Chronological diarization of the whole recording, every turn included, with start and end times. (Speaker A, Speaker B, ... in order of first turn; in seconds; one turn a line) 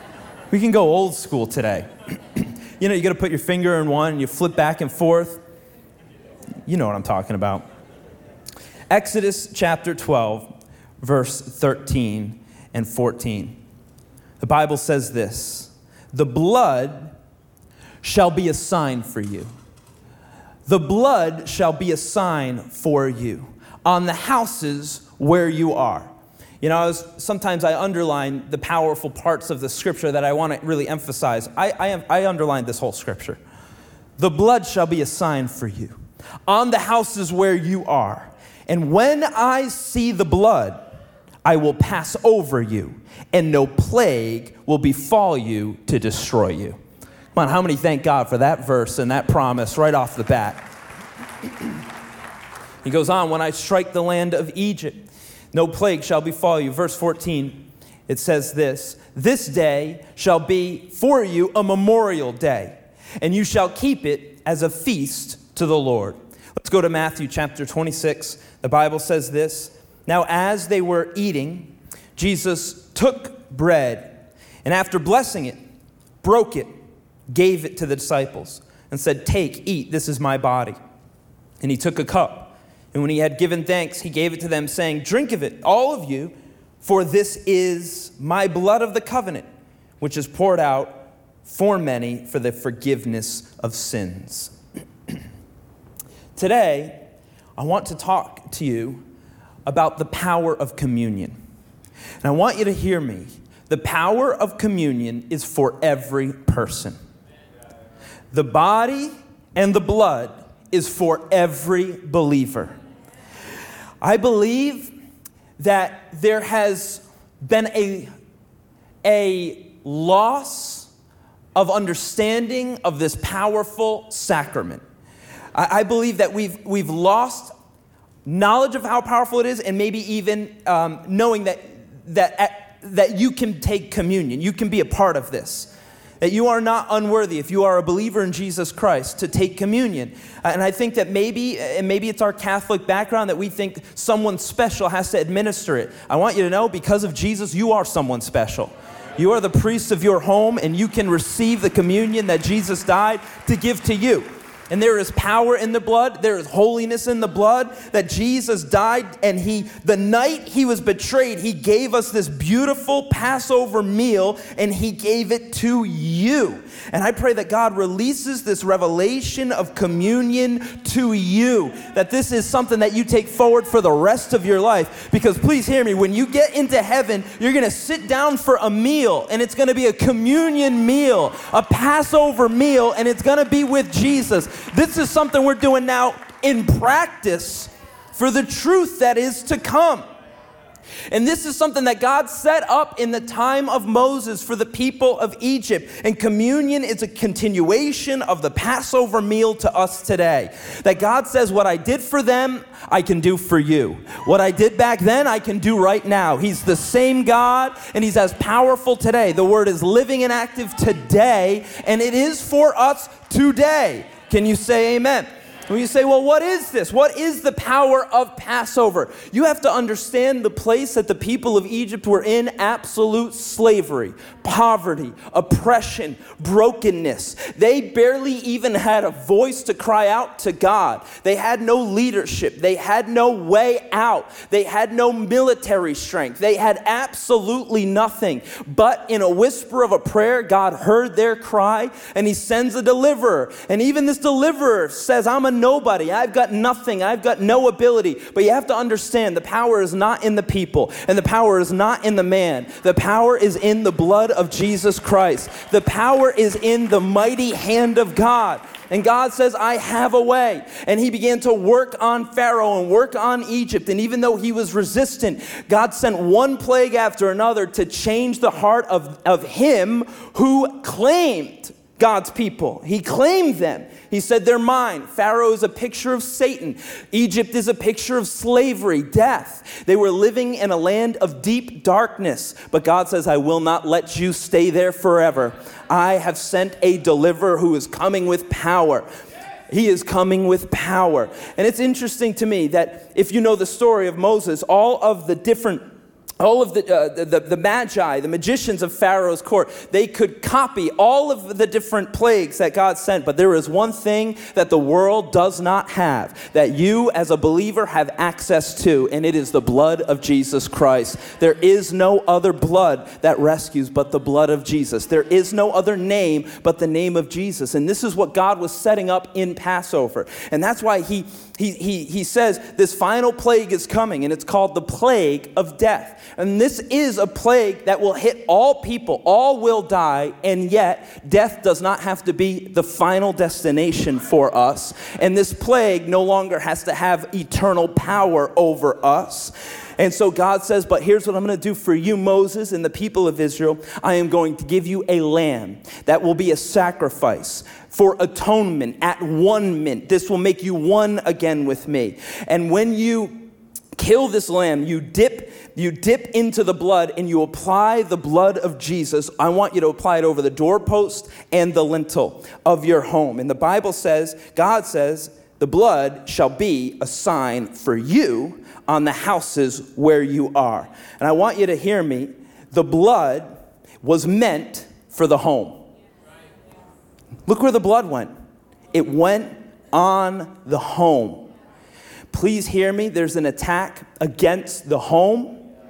Speaker A: 0.5-5.4
Speaker A: 6.7-7.7
Speaker A: 8.9-13.6
Speaker A: 14.4-17.1
Speaker A: 18.0-19.5
Speaker A: 20.7-33.4
Speaker A: 34.2-36.0
Speaker A: 36.5-40.8
Speaker A: 41.5-46.8
Speaker A: 47.4-50.6
Speaker A: 52.8-75.6
Speaker A: 76.2-76.7
Speaker A: 77.3-80.8
Speaker A: 81.6-89.5
Speaker A: 90.0-94.5
Speaker A: 96.4-97.0
Speaker A: 97.6-99.0
Speaker A: 99.7-101.3
Speaker A: 102.2-107.0
Speaker A: 108.3-112.8
Speaker A: 114.0-114.9
Speaker A: 115.6-118.1
Speaker A: 119.0-120.9
Speaker A: 121.5-124.8
Speaker A: 125.5-127.5
Speaker A: 128.2-135.7
Speaker A: 136.2-190.0
Speaker A: 191.1-289.1
Speaker A: 289.7-295.9
Speaker A: 296.4-375.8
Speaker A: 377.5-378.3
Speaker A: 378.9-381.5
Speaker A: 382.3-385.6